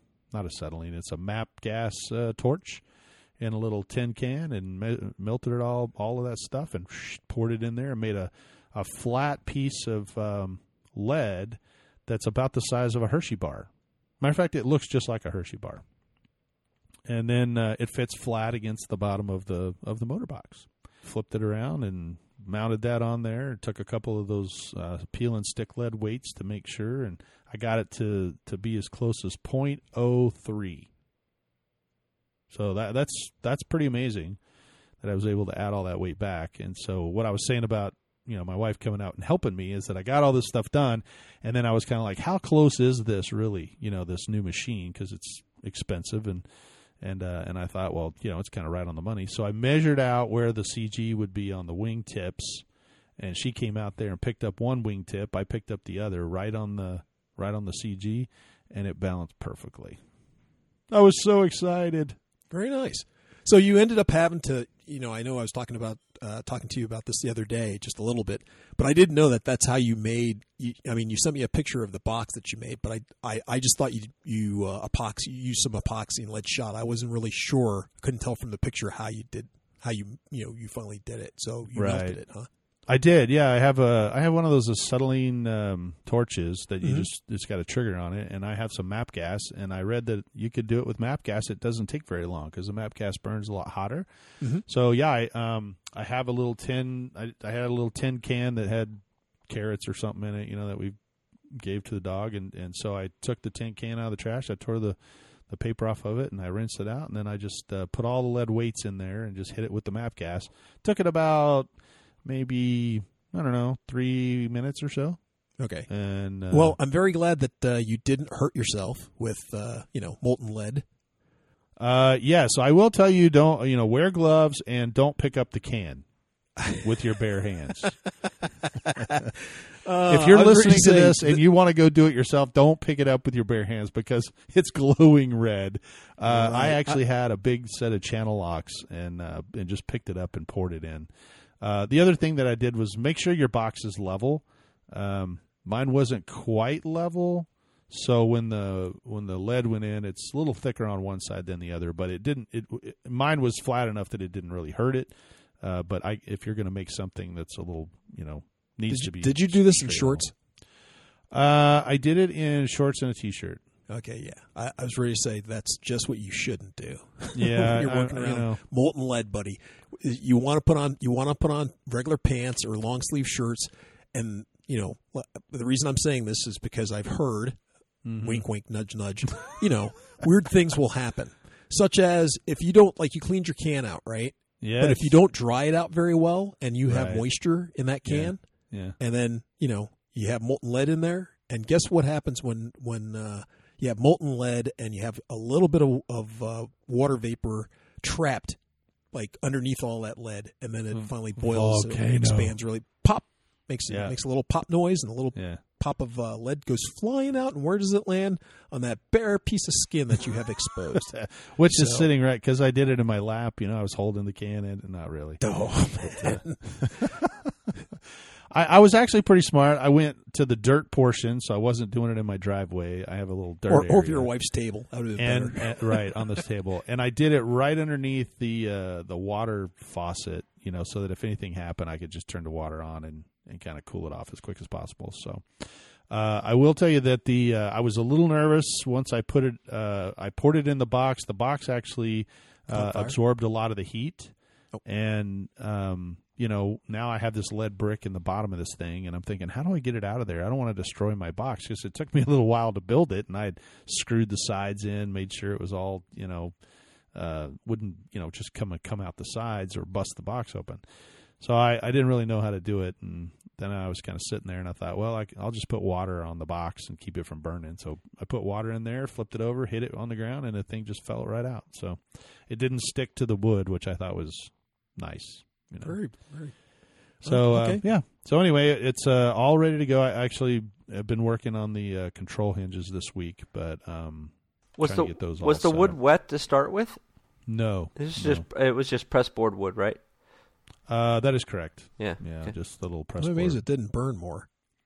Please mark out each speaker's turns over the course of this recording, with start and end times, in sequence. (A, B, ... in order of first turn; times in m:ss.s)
0:00.3-0:02.8 A
0:03.4-0:15.8 A
0:17.1-0:30.9 A
0:32.5-0:34.4 A
0:35.0-0:46.4 A
0:47.0-0:52.6 A
0:53.2-1:00.0 A
1:00.9-1:02.2 A
1:02.5-1:22.5 B
1:21.8-1:22.2 A
1:22.9-1:34.1 A
1:26.8-1:27.1 B
1:34.7-1:41.0 A
1:41.5-1:45.0 A
1:45.5-1:51.7 A
1:52.2-1:55.2 A
1:55.6-1:55.9 B
1:55.9-1:56.8 A
1:56.5-2:00.8 B
2:01.8-2:06.0 A
2:06.7-2:07.9 A
2:08.9-2:09.3 B
2:09.8-2:11.4 B
2:10.1-2:21.1 A
2:16.3-2:17.0 B
2:21.6-2:40.3 A
2:38.9-2:40.3 B
2:41.3-2:43.6 A
2:43.9-2:57.6 B
2:47.4-2:48.6 A
2:58.0-2:58.4 A
2:58.2-3:08.4 B
3:04.6-3:05.2 A
3:06.9-3:07.2 A
3:08.1-3:09.0 A
3:09.0-3:18.6 B
3:19.1-3:31.2 B
3:20.9-3:22.6 A
3:23.9-3:24.2 A
3:25.4-3:25.6 A
3:31.0-3:37.7 A
3:31.7-3:32.1 B
3:35.4-3:37.1 B
3:38.5-3:44.3 A
3:43.7-3:46.2 B
3:45.2-4:04.3 A
4:02.7-4:03.2 B
4:04.8-4:16.5 A
4:17.1-4:20.8 A
4:21.4-4:36.0 A
4:35.8-4:36.5 B
4:37.2-4:37.8 B
4:37.2-4:46.0 A
4:44.8-4:47.0 C
4:47.5-4:48.4 A
4:48.0-4:50.0 C
4:50.9-4:53.6 A
4:52.0-4:52.5 C
4:53.2-4:54.5 B